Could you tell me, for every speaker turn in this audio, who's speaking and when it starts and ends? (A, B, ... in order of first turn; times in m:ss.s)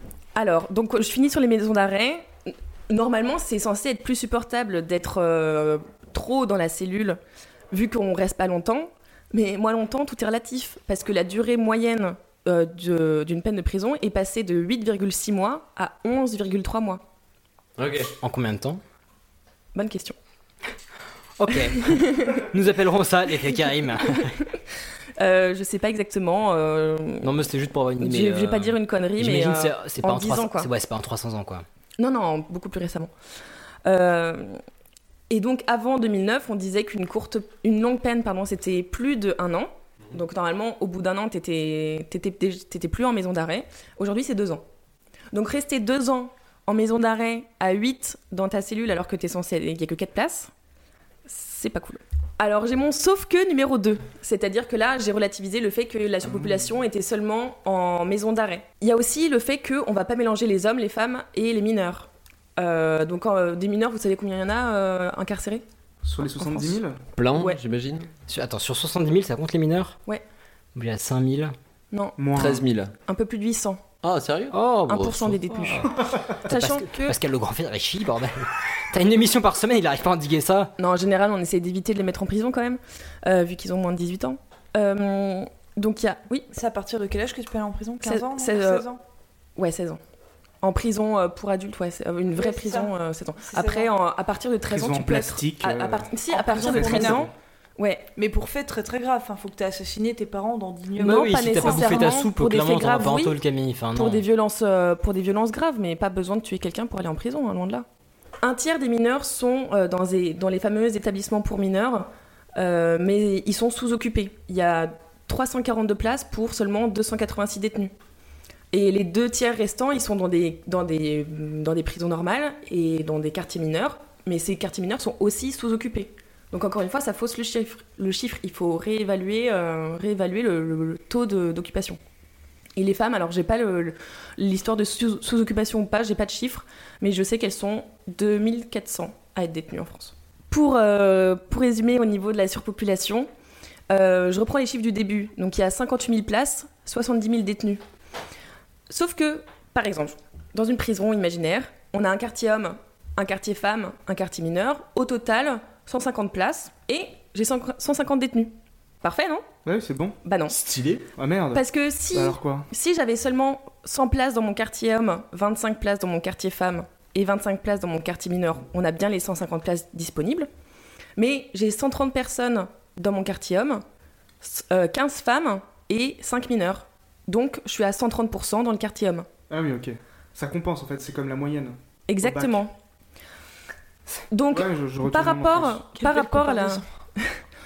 0:00.4-0:02.3 A
0:02.9-0:07.2 A
0:07.7-0:17.0 A
0:17.8-0:18.1 B
0:18.2-0:18.8 C
0:19.8-0:20.2 A
0:21.4-0:24.4 C
0:21.8-0:22.4 A
0:25.2-0:27.3 A
0:27.2-0:31.6 C
0:28.0-0:30.7 A
0:32.0-0:33.1 A
0:33.8-0:34.6 A
0:35.3-0:44.6 A
0:45.3-0:50.5 A
0:51.3-1:05.6 A
1:06.0-1:07.0 D
1:06.3-1:06.8 A
1:07.2-1:08.1 B
1:08.3-1:10.0 C
1:10.8-1:11.5 C
1:11.9-1:12.2 A
1:12.2-1:12.6 D
1:12.3-1:12.9 B
1:13.1-1:13.8 A
1:14.0-1:14.6 B
1:14.5-1:15.9 C
1:14.9-1:17.2 A
1:16.5-1:20.7 C
1:20.8-1:26.5 A
1:26.5-1:29.0 E
1:28.0-1:28.9 A
1:29.6-1:30.0 A
1:30.6-1:38.1 A
1:32.4-1:33.9 E
1:34.7-1:37.3 D
1:36.3-1:37.3 E
1:38.2-1:42.2 E
1:41.0-1:44.2 C
1:41.0-1:43.4 A
1:44.0-1:47.8 A
1:48.4-1:57.9 A
1:58.7-2:12.0 A
2:12.8-2:23.3 A
2:23.9-2:27.8 A
2:28.9-2:39.4 A
2:39.6-2:40.2 D
2:40.2-2:40.6 A
2:40.5-2:41.1 B
2:41.2-2:42.7 D
2:41.5-2:50.5 A
2:51.2-2:53.8 A
2:54.4-2:59.3 A
2:59.5-3:02.6 D
3:02.1-3:02.7 A
3:04.3-3:07.3 A
3:04.5-3:05.8 D
3:06.0-3:06.8 E